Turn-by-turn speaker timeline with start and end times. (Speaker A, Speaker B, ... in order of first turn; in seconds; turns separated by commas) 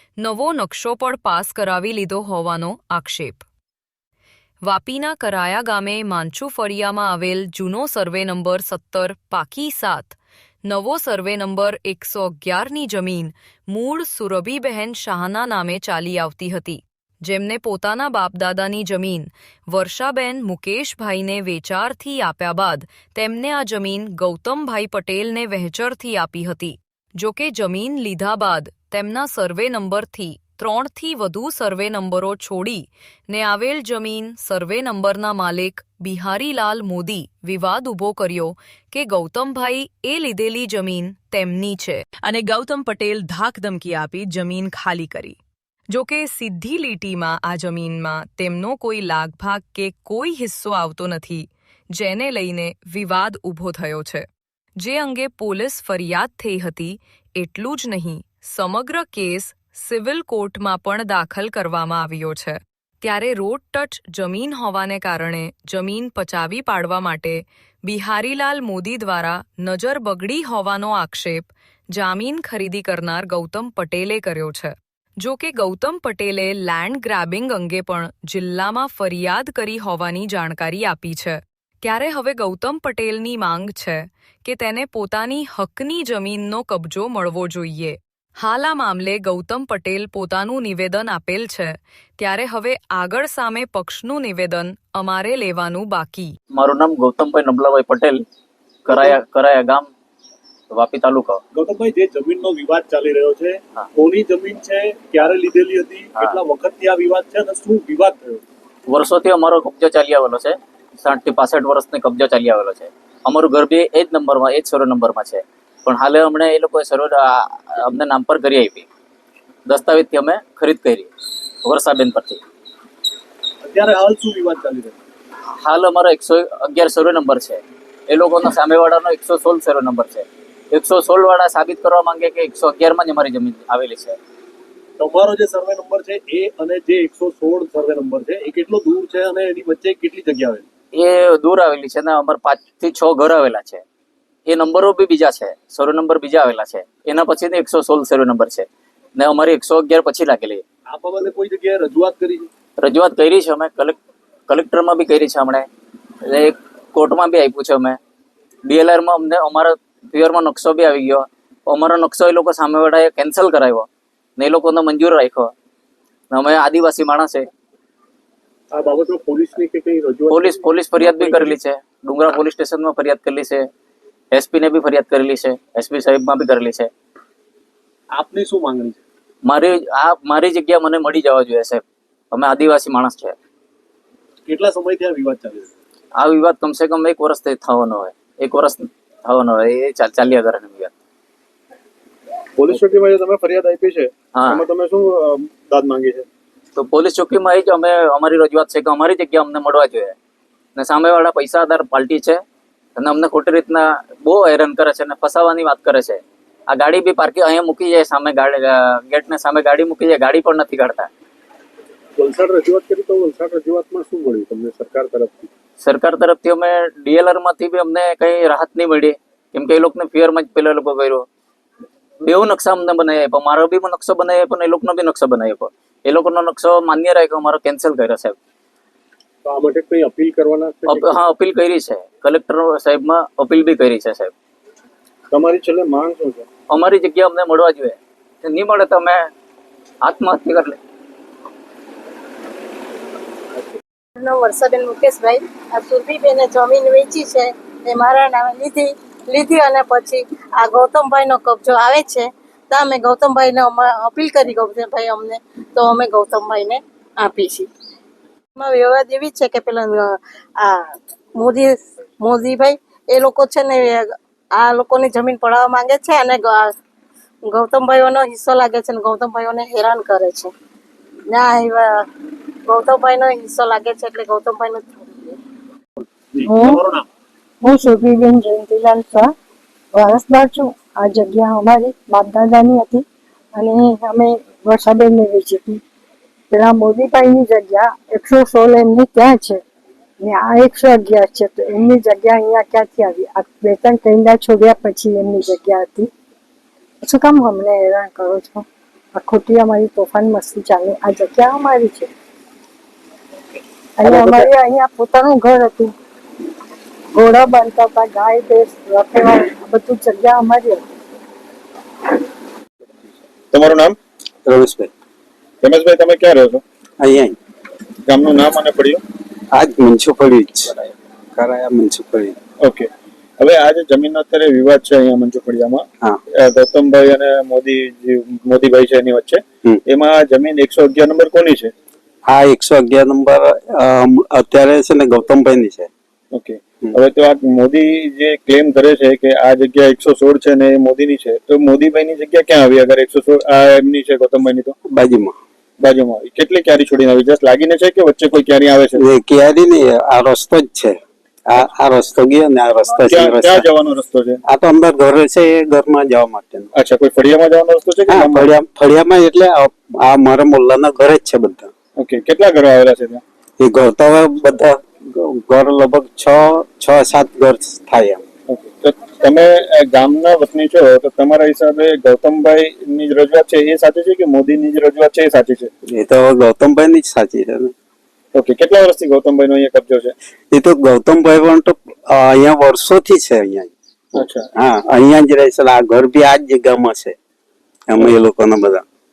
Speaker A: 0.2-3.5, Speaker A: 4.7-45.4, Speaker A: 45.9-96.3, Speaker B: 96.5-98.2, Speaker B: 98.9-99.9, Speaker B: 100.7-101.4, Speaker C: 101.5-108.4, Speaker B: 108.9-118.9, Speaker B: 119.7-121.1, Speaker B: 121.7-122.4, Speaker C: 123.6-125.0, Speaker B: 125.6-134.2, Speaker C: 135.0-140.7, Speaker B: 140.9-143.8, Speaker B: 144.5-150.6, Speaker C: 150.9-152.5, Speaker B: 152.8-154.0, Speaker B: 154.5-155.7, Speaker B: 156.2-158.0, Speaker B: 158.7-165.5, Speaker B: 166.3-167.5, Speaker C: 168.7-171.5, Speaker B: 170.3-173.7, Speaker B: 174.3-176.9, Speaker C: 178.1-179.0, Speaker B: 179.5-183.4, Speaker C: 184.5-185.7, Speaker B: 186.2-190.9, Speaker D: 192.6-196.3, Speaker B: 194.3-194.7, Speaker B: 196.8-200.2, Speaker B: 200.8-202.4, Speaker B: 203.0-211.1, Speaker C: 212.2-215.5, Speaker B: 215.8-221.2, Speaker B: 222.2-228.4, Speaker C: 229.5-231.1, Speaker B: 230.9-234.3, Speaker B: 236.7-239.3, Speaker B: 240.1-240.8, Speaker E: 244.2-257.7, Speaker E: 258.6-266.7, Speaker E: 267.5-270.5, Speaker E: 271.3-272.0, Speaker E: 272.7-275.4, Speaker C: 276.3-277.1, Speaker F: 276.5-276.8, Speaker F: 277.6-279.3, Speaker F: 279.9-285.8, Speaker F: 286.5-289.6, Speaker F: 290.2-296.1, Speaker F: 297.0-302.1, Speaker F: 304.0-305.9, Speaker F: 307.1-310.8, Speaker D: 313.5-314.0, Speaker G: 314.5-314.9, Speaker D: 315.6-316.6, Speaker G: 317.0-317.4, Speaker D: 318.1-319.0, Speaker G: 319.6-320.8, Speaker G: 321.4-322.4, Speaker D: 322.6-322.9, Speaker D: 323.4-325.9, Speaker D: 326.4-331.7, Speaker G: 332.3-335.9, Speaker D: 336.3-344.8, Speaker G: 344.9-345.4, Speaker D: 345.8-349.0, Speaker G: 349.0-353.6, Speaker D: 353.1-354.4, Speaker G: 354.5-356.7, Speaker D: 356.8-358.5, Speaker G: 358.1-361.7, Speaker D: 362.0-363.2, Speaker G: 363.6-368.2, Speaker D: 368.5-375.7, Speaker G: 375.9-377.7, Speaker D: 378.3-380.1, Speaker G: 380.5-383.7, Speaker D: 384.1-384.5, Speaker G: 384.6-387.1, Speaker G: 387.9-388.8